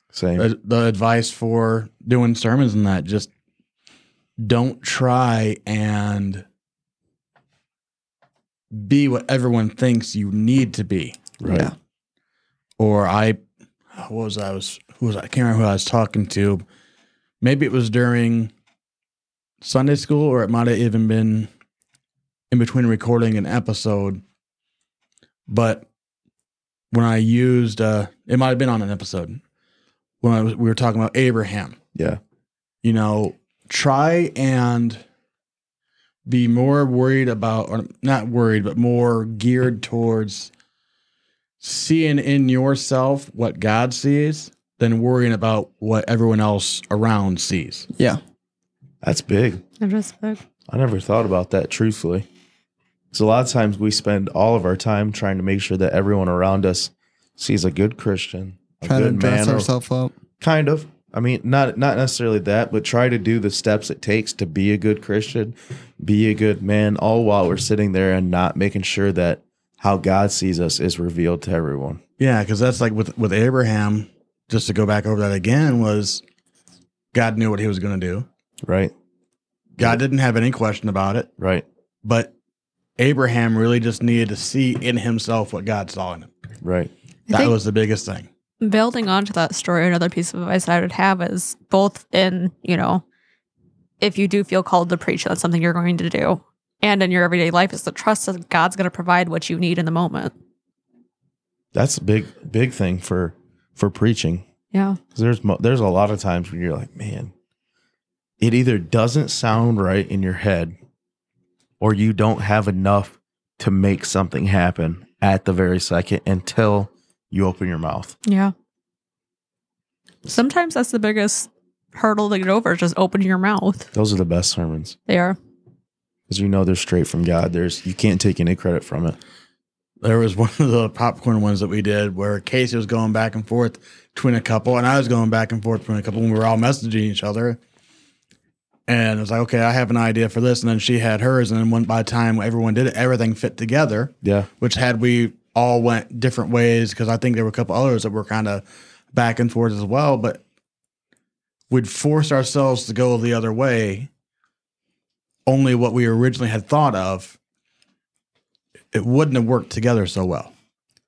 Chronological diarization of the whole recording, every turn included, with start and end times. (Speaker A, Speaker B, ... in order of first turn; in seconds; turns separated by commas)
Speaker A: 0.1-0.5, Speaker B: 0.4-3.3, Speaker B: 4.4-6.5, Speaker B: 8.7-11.2, Speaker A: 11.4-11.7, Speaker C: 11.4-11.7, Speaker B: 12.8-13.4, Speaker B: 13.9-16.6, Speaker B: 17.4-18.5, Speaker B: 19.6-21.5, Speaker B: 22.5-24.2, Speaker B: 25.5-25.9, Speaker B: 26.9-29.4, Speaker B: 30.2-31.8, Speaker A: 31.9-32.2, Speaker B: 32.8-35.0, Speaker B: 36.3-40.5, Speaker B: 41.6-47.9, Speaker C: 48.0-48.2, Speaker A: 49.0-49.6, Speaker D: 49.8-50.4, Speaker A: 50.7-52.3, Speaker A: 53.1-59.7, Speaker C: 58.8-60.2, Speaker A: 60.4-72.0, Speaker B: 72.2-76.2, Speaker B: 77.1-78.3, Speaker A: 78.6-78.9, Speaker B: 79.8-81.3, Speaker A: 81.4-81.7, Speaker B: 82.0-82.3, Speaker B: 83.0-86.3, Speaker A: 86.6-86.9, Speaker D: 87.3-87.5, Speaker B: 87.3-88.3, Speaker D: 88.6-93.0, Speaker D: 94.0-100.3, Speaker A: 101.7-104.5, Speaker D: 104.7-105.0, Speaker A: 105.1-107.3, Speaker A: 108.4-110.8, Speaker A: 111.8-118.2, Speaker D: 118.3-118.5, Speaker D: 120.3-123.9, Speaker A: 123.9-125.0, Speaker D: 125.1-125.4, Speaker A: 126.3-129.2, Speaker B: 130.0-137.6, Speaker B: 138.9-150.4, Speaker A: 144.2-144.5, Speaker B: 151.7-154.1, Speaker B: 155.5-157.4, Speaker B: 158.9-160.5